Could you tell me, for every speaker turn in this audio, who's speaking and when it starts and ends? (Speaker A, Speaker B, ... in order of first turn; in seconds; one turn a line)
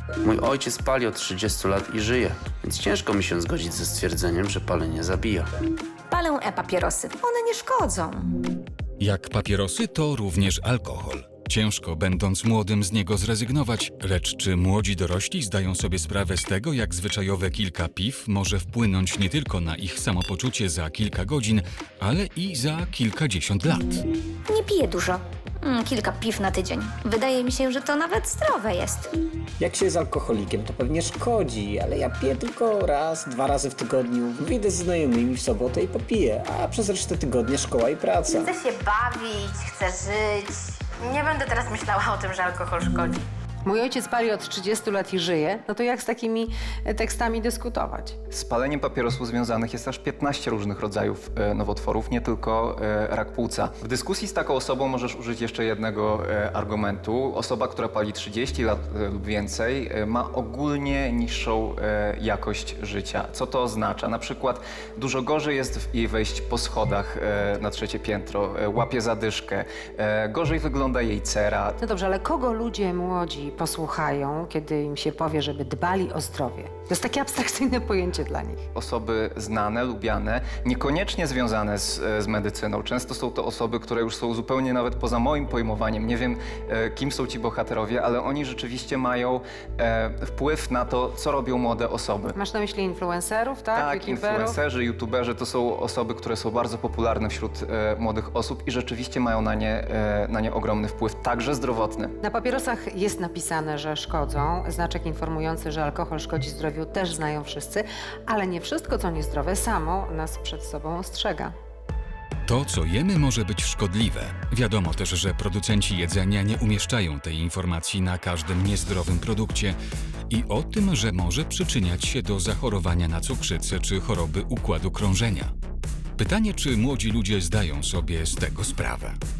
Speaker A: 0.2-5.5
Speaker B: 6.1-8.3
Speaker C: 9.0-24.0
Speaker B: 24.5-29.1
Speaker D: 29.6-38.5
Speaker E: 38.4-43.2
Speaker F: 43.6-48.2
Speaker G: 48.3-71.8
Speaker F: 71.8-78.7
Speaker G: 78.7-92.3
Speaker F: 92.3-94.6
Speaker G: 93.7-102.1
Speaker F: 102.2-111.5
Speaker C: 112.5-119.8
Speaker C: 120.3-125.5
Speaker C: 126.2-129.2